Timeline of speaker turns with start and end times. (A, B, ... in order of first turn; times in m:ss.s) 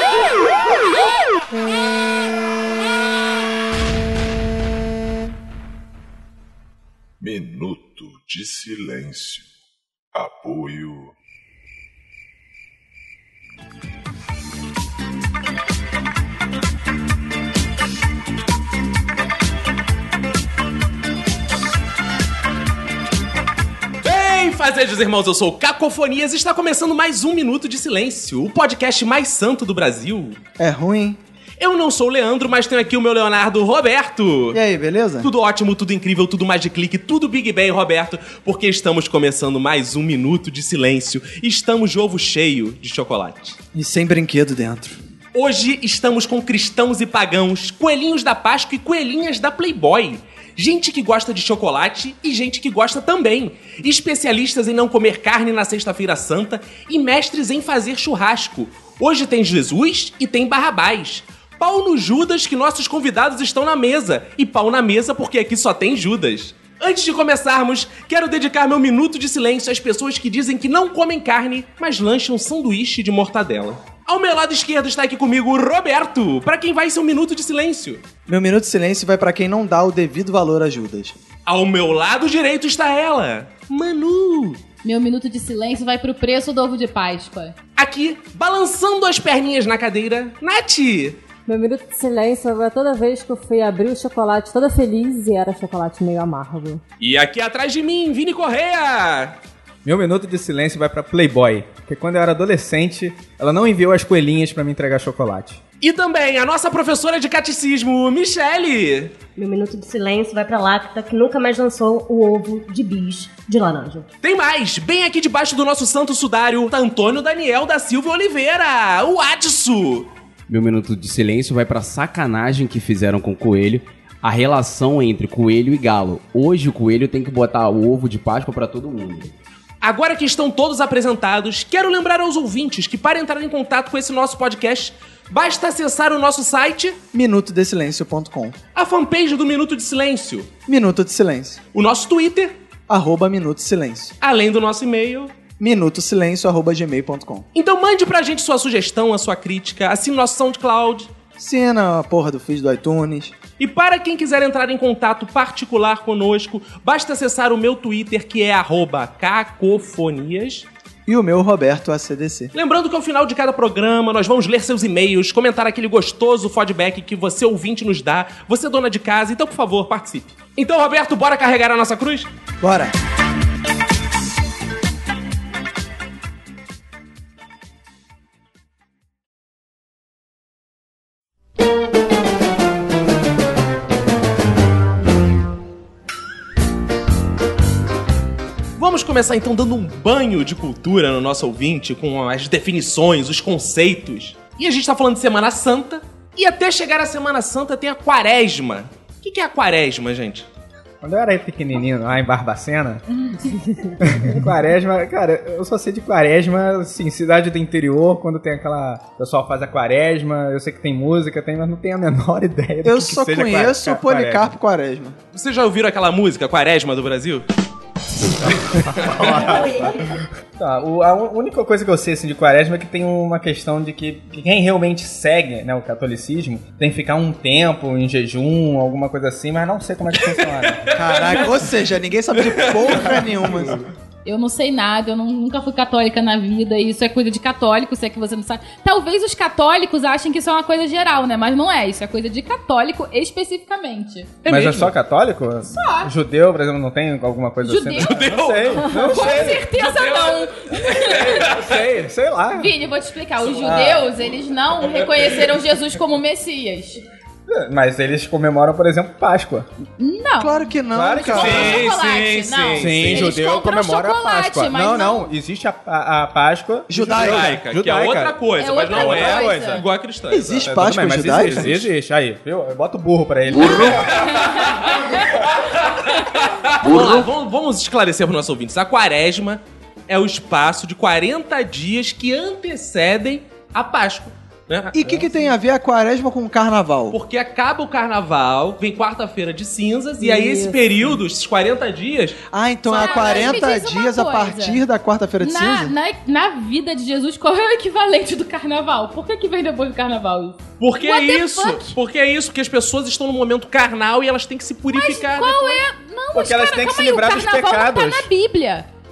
0:07.2-0:09.5 A
0:10.1-0:11.1 A
0:24.0-0:30.4 B
0:30.6-0:31.2 C
0:31.6-0:34.6 B
0:34.5-0:35.3 C
0:35.2-0:43.6 B
0:43.7-0:45.0 C
0:45.3-1:18.0 B
1:18.3-1:21.2 C
1:21.5-1:24.6 B
1:24.8-1:27.6 D
1:27.8-1:31.2 B
1:31.5-1:36.8 E
1:37.0-1:39.4 B
1:39.8-1:45.6 F
1:45.8-1:49.1 B
1:49.4-1:54.1 G
1:54.2-2:00.1 B
2:00.5-2:09.3 H
2:09.8-2:17.0 B
2:17.1-2:18.6 C
2:18.8-2:20.5 B
2:20.7-2:21.6 C
2:21.7-2:22.6 B
2:22.9-2:24.1 C
2:24.2-2:25.3 B
2:25.6-2:27.4 C
2:27.6-2:31.1 B
2:31.4-2:33.4 C
2:33.6-2:40.7 B
2:41.1-2:42.5 C
2:42.5-2:52.3 B
2:52.6-2:52.9 C
3:08.8-3:20.5 B
3:21.0-3:23.0 F
3:24.0-3:34.5 F
3:32.8-3:35.2 C
3:35.3-3:37.5 B
3:38.4-3:40.1 F
3:39.1-3:40.1 G
3:40.6-3:50.9 F
3:50.9-3:51.8 B
3:51.0-3:53.8 C
3:52.3-3:53.4 B
3:54.2-4:04.8 D
4:04.5-4:09.6 F
4:04.5-4:04.9 B
4:05.8-4:06.1 D
4:07.6-4:08.3 D
4:08.0-4:11.8 B
4:09.0-4:11.4 D
4:11.0-4:12.7 F
4:12.5-4:17.0 D
4:13.6-4:14.1 F
4:17.5-4:19.7 F
4:20.0-4:25.3 D
4:20.4-4:21.8 C
4:20.9-4:21.9 F
4:21.3-4:23.3 B
4:22.8-4:29.8 F
4:26.9-4:27.6 C
4:27.0-4:31.9 B
4:28.6-4:29.8 D
4:30.3-4:31.8 C
4:30.6-4:34.4 F
4:33.6-4:35.3 D
4:35.9-4:45.3 B
4:44.9-4:47.2 C
4:47.1-4:52.4 B
4:50.4-4:50.7 E
4:52.5-4:55.9 C
4:52.9-4:54.8 D
4:55.4-5:01.9 D
5:00.8-5:05.8 B
5:04.9-5:08.9 D
5:06.3-5:08.3 F